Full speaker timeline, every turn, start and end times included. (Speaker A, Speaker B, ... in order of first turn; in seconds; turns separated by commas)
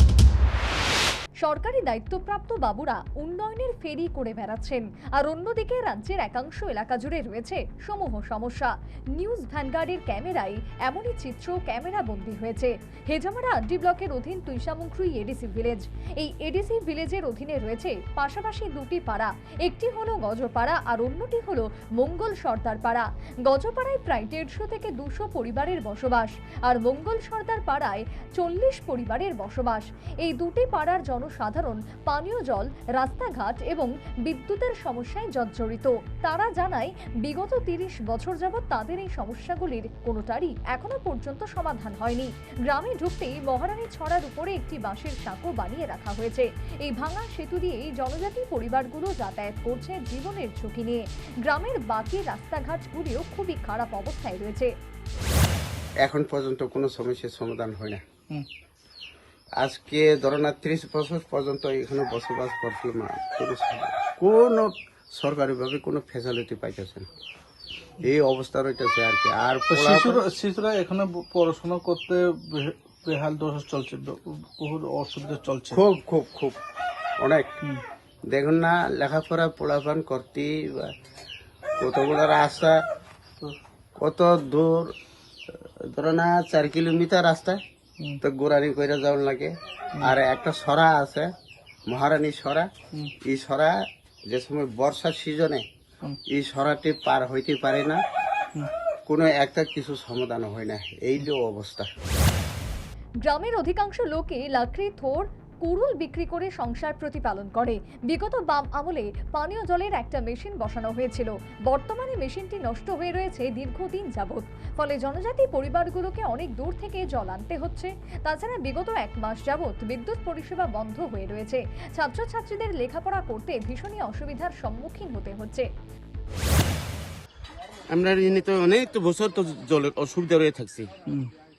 Speaker A: 1.4-54.7, Speaker B: 56.0-58.0, Speaker B: 59.6-67.1, Speaker B: 68.0-70.2, Speaker C: 69.7-75.8, Speaker B: 75.7-76.6, Speaker B: 77.2-77.6, Speaker B: 78.3-80.9, Speaker B: 81.8-82.8, Speaker B: 84.0-84.9, Speaker B: 85.5-87.6, Speaker B: 88.2-91.3, Speaker B: 91.9-92.7, Speaker B: 93.2-95.7, Speaker B: 96.3-98.0, Speaker B: 99.1-101.9, Speaker A: 103.2-125.7, Speaker D: 127.9-130.9, Speaker C: 131.1-131.3